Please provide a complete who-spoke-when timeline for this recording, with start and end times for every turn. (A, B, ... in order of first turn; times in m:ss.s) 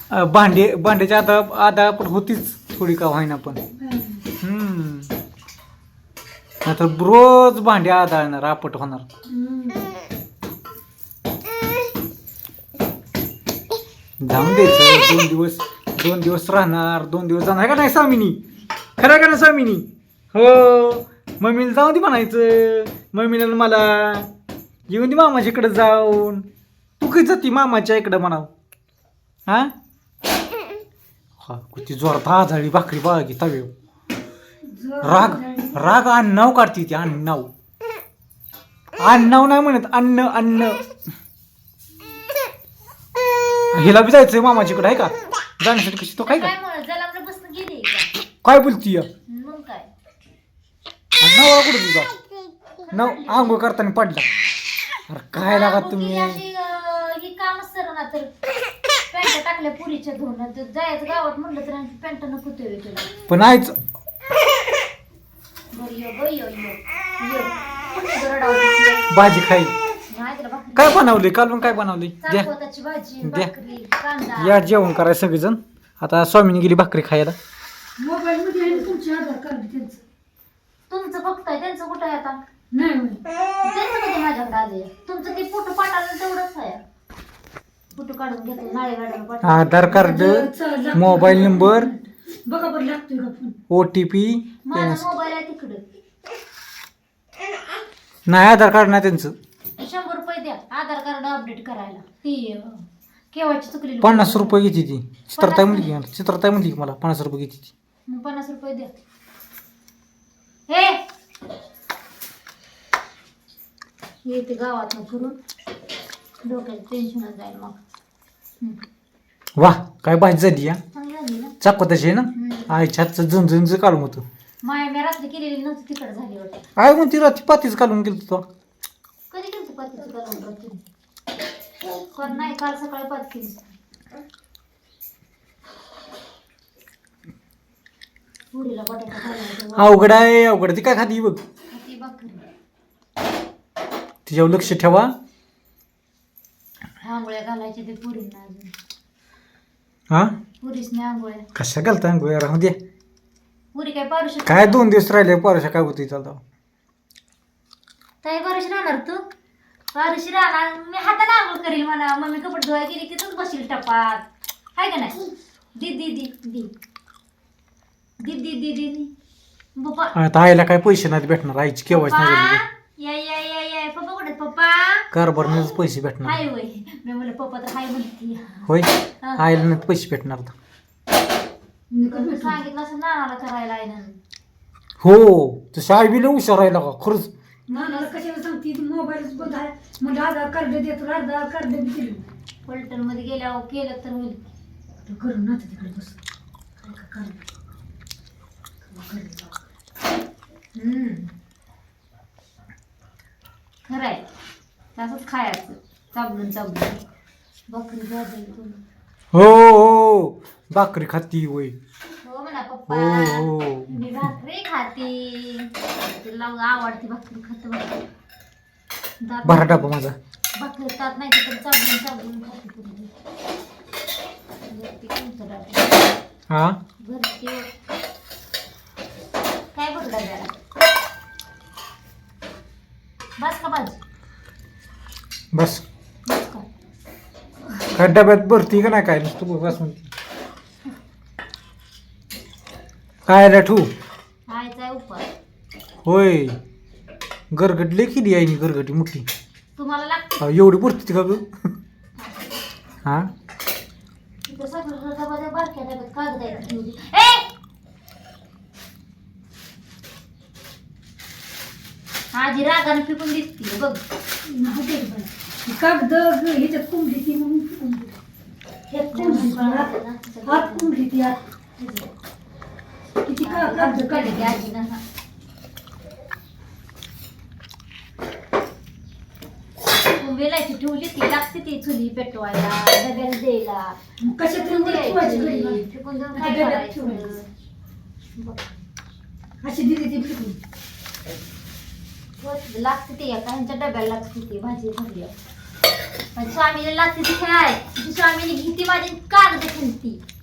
0:00.1-0:03.6 A
0:03.7-0:04.3 B
0:04.4-0:05.1 A
0:06.6-0:09.0 A
0:09.3-0:09.9 B
0:14.2-0:18.4 A
0:19.0-0:24.3 A
0:24.9-0:26.4 A
0:27.0-0:28.5 A
0:29.5-0:29.7 A
0:31.4-0:33.7 A
0:34.7-0:36.0 B
0:35.0-0:37.5 A
0:39.0-0:40.8 A
0:43.7-0:46.5 A
0:46.2-0:48.1 C
0:48.4-0:49.1 A
0:49.3-0:49.9 C
0:51.2-0:52.1 A
0:52.9-0:53.6 C
0:52.9-0:54.3 A
0:55.1-0:56.4 A
0:55.4-0:58.3 C
0:59.1-1:03.1 C
1:03.3-1:03.8 A
1:05.7-1:09.1 C
1:09.1-1:09.7 A
1:10.1-1:11.0 C
1:10.7-1:12.5 A
1:12.2-1:14.7 C
1:13.2-1:13.5 A
1:14.4-1:17.4 A
1:18.0-1:20.0 B
1:18.6-1:19.0 C
1:20.9-1:22.4 C
1:22.7-1:23.2 B
1:23.6-1:26.8 C
1:27.9-1:30.0 C
1:29.4-1:31.9 A
1:29.9-1:33.6 B
1:33.7-1:35.1 A
1:34.6-1:35.8 C
1:38.3-1:39.3 A
1:39.8-1:44.6 C
1:44.0-1:47.7 A
1:45.4-1:45.9 C
1:48.1-1:48.9 C
1:50.7-1:51.0 C
1:54.2-1:55.4 C
1:56.4-1:57.8 C
1:59.6-2:00.8 A
2:00.9-2:01.6 C
2:01.6-2:04.2 A
2:02.3-2:02.7 C
2:04.6-2:06.6 C
2:06.8-2:08.4 A
2:09.3-2:10.8 C
2:12.1-2:13.7 C
2:18.5-2:20.1 C
2:19.8-2:21.4 A
2:21.7-2:22.4 C
2:24.2-2:25.1 A
2:24.5-2:24.8 C
2:27.0-2:28.7 C
2:30.6-2:31.5 C
2:31.5-2:32.8 A
2:33.7-2:34.9 C
2:34.4-2:36.4 A
2:38.2-2:39.2 C
2:39.9-2:46.7 C
2:48.2-2:49.1 C
2:49.8-2:50.2 C
2:50.1-2:52.6 A
2:51.9-2:55.7 C
2:55.1-2:56.4 A
2:56.2-2:59.4 C
2:58.7-3:00.5 A
3:01.9-3:02.6 B
3:02.1-3:04.2 C
3:05.0-3:07.3 A
3:07.7-3:12.2 B
3:07.7-3:08.1 C
3:12.6-3:14.4 C
3:15.0-3:16.2 B
3:16.8-3:17.4 B
3:18.9-3:19.5 B
3:20.7-3:21.3 C
3:23.8-3:24.2 C
3:24.9-3:27.0 C
3:27.7-3:28.8 C
3:29.3-3:31.7 A
3:32.2-3:38.0 C
3:32.9-3:34.0 A
3:39.2-3:39.9 C
3:39.4-3:40.2 A
3:40.6-3:43.1 C
3:44.7-3:46.1 C
3:46.5-3:46.8 A
3:47.0-3:47.7 C
3:49.7-3:50.6 C
3:53.4-3:54.0 C
3:55.5-3:55.8 A
3:56.3-3:56.6 C
3:57.9-4:00.1 A
4:03.3-4:03.9 A
4:04.5-4:05.3 C
4:06.0-4:06.6 A
4:07.5-4:09.2 A
4:09.8-4:10.4 C
4:10.4-4:11.5 A
4:12.2-4:12.6 C
4:14.4-4:17.5 C
4:22.3-4:24.0 C
4:24.4-4:28.2 B
4:28.9-4:29.9 B
4:29.1-4:30.9 C
4:30.4-4:32.1 B
4:33.2-4:34.6 B
4:33.4-4:35.0 C
4:40.1-4:47.5 C
4:44.2-4:45.8 B
4:46.3-4:47.4 B
4:48.4-4:48.7 C
4:49.6-4:50.6 B
4:52.4-4:55.3 C
4:56.3-5:00.2 C